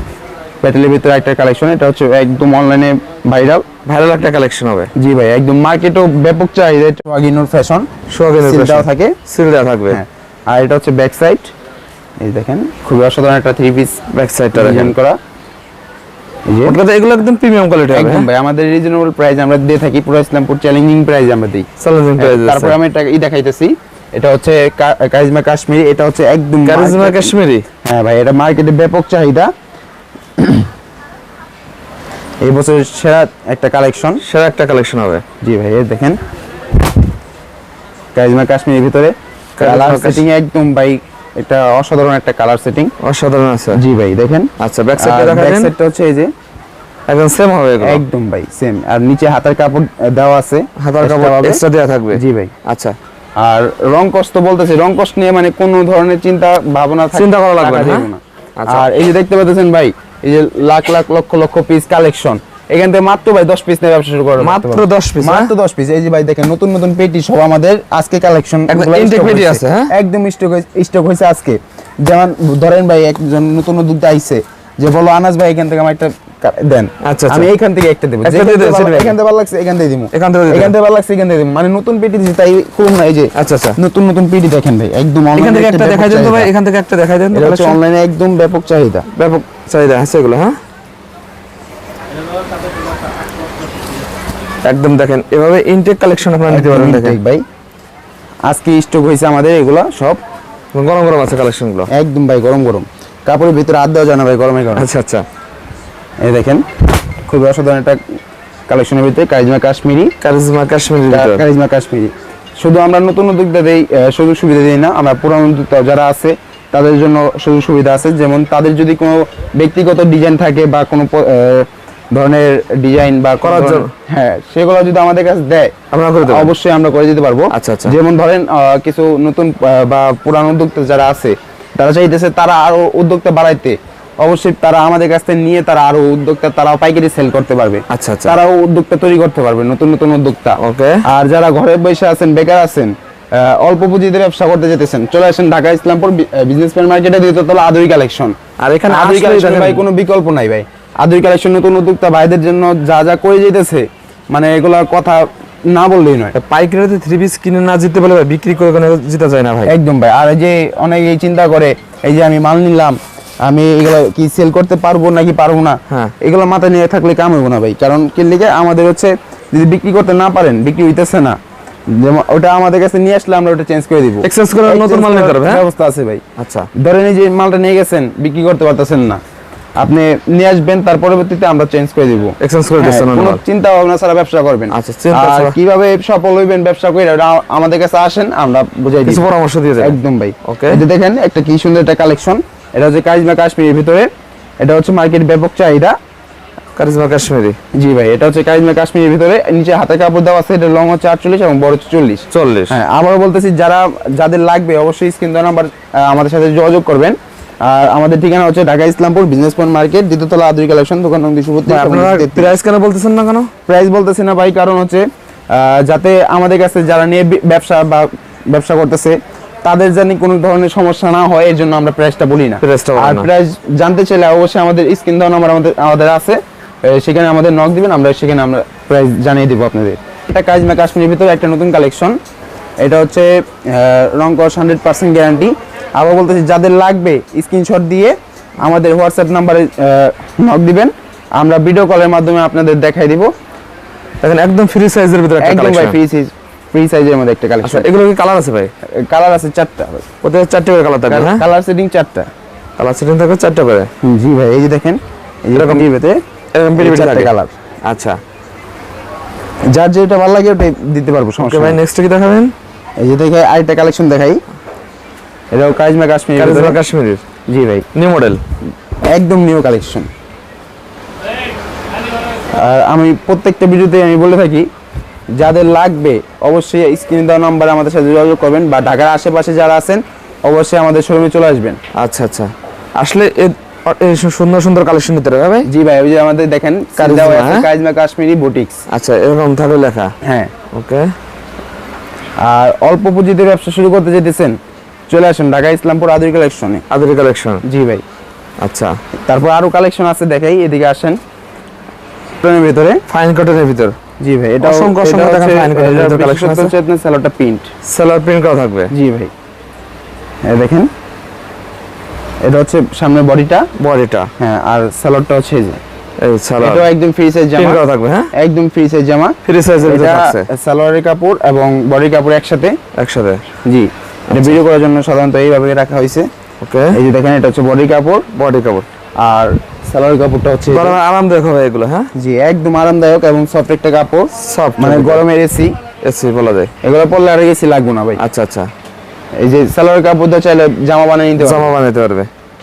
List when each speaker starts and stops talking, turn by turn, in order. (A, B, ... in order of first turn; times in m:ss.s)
0:00.6-0:03.7 A
0:03.8-0:04.9 B
0:05.0-0:07.9 A
0:08.1-0:10.0 B
0:08.4-0:09.2 A
0:09.9-0:11.5 A
0:12.2-0:14.0 A
0:14.1-0:14.9 B
0:14.5-0:15.2 A
0:16.5-0:16.8 A
0:16.6-0:18.3 B
0:17.9-0:29.5 A
0:21.8-0:22.8 B
0:26.6-0:27.7 B
0:30.4-0:30.7 A
0:32.4-0:34.2 A
0:34.2-0:35.2 B
0:35.4-0:36.2 A
0:38.2-0:42.9 A
0:39.6-0:40.2 B
0:43.0-0:43.8 B
0:43.7-0:46.3 A
0:44.6-0:45.7 B
0:47.1-0:48.0 B
0:47.8-0:52.5 A
0:50.8-0:53.0 B
0:53.4-1:26.5 A
0:57.1-0:58.9 B
1:04.4-1:05.5 B
1:08.7-1:09.9 B
1:17.0-1:17.5 B
1:18.2-1:19.2 B
1:20.1-1:20.7 B
1:23.4-1:23.8 B
1:25.4-1:27.8 B
1:27.3-1:29.1 A
1:29.1-1:30.6 B
1:34.6-1:37.2 B
1:36.5-1:37.4 A
1:38.5-1:40.2 A
1:40.7-1:41.9 B
1:41.9-1:44.9 A
1:44.8-1:45.2 B
1:46.2-1:46.7 A
1:47.3-1:48.0 A
1:48.7-1:50.1 A
1:50.2-1:51.4 B
1:51.1-2:28.4 A
2:03.4-2:03.9 B
2:05.9-2:06.5 B
2:07.5-2:08.0 B
2:17.9-2:18.4 B
2:20.6-2:21.0 B
2:28.6-2:29.8 B
2:28.9-2:36.4 A
2:36.3-2:39.7 B
2:39.7-2:51.4 A
2:51.9-2:56.2 A
2:54.2-2:55.6 B
2:56.4-2:56.7 B
2:56.8-2:59.2 A
2:59.8-3:09.2 A
3:02.4-3:03.4 B
3:04.7-3:05.6 B
3:09.0-3:10.8 B
3:09.8-3:14.1 A
3:14.6-3:16.0 A
3:16.8-3:17.6 B
3:17.8-3:32.5 A
3:22.3-3:22.8 B
3:31.7-3:33.5 B
3:33.7-3:52.2 A
3:42.6-3:43.3 B
3:52.8-4:03.3 A
4:04.2-4:06.0 B
4:05.4-4:07.9 A
4:07.6-4:08.7 B
4:09.0-4:10.1 A
4:10.2-4:11.4 B
4:11.1-4:12.3 A
4:12.8-4:13.9 B
4:14.0-4:16.2 A
4:15.5-4:15.9 B
4:16.5-4:17.3 B
4:16.8-4:17.5 A
4:17.9-4:18.2 B
4:19.7-4:21.8 A
4:21.4-4:22.5 B
4:23.0-4:24.4 A
4:25.5-4:26.8 A
4:26.4-4:27.2 B
4:27.5-4:27.9 A
4:27.9-4:28.4 B
4:29.0-4:30.1 A
4:32.5-4:34.7 A
4:35.4-4:41.8 A
4:41.9-4:45.7 B
4:45.7-4:48.8 A
4:47.0-4:47.7 B
4:48.9-4:50.1 B
4:50.2-4:50.5 A
4:50.7-4:51.1 B
4:52.4-4:54.6 A
4:55.1-4:56.8 A
4:56.9-4:57.6 B
4:57.6-4:58.0 A
4:58.6-4:59.0 B
4:59.3-5:01.2 A
5:02.4-5:03.0 A
5:03.1-5:04.0 B
5:04.2-5:07.7 A
5:04.6-5:06.8 B
5:07.8-5:08.9 B
5:08.9-5:09.3 A
5:10.4-5:10.9 A
5:12.4-5:13.7 A
5:13.8-5:14.3 B
5:14.4-5:15.8 A
5:16.2-5:16.9 B
5:16.6-5:17.8 A
5:17.6-5:18.3 B
5:18.3-5:22.8 A
5:19.4-5:20.5 B
5:23.0-5:23.4 B
5:23.7-5:26.3 A
5:24.3-5:24.6 B
5:26.6-5:27.0 B
5:26.9-5:28.3 A
5:28.3-5:28.9 B
5:29.2-5:31.0 A
5:30.7-5:32.1 B
5:32.2-5:35.7 A
5:34.3-5:35.2 B
5:36.0-5:36.7 B
5:36.8-5:38.2 A
5:38.2-5:38.7 B
5:39.4-5:41.7 A
5:41.4-5:42.3 B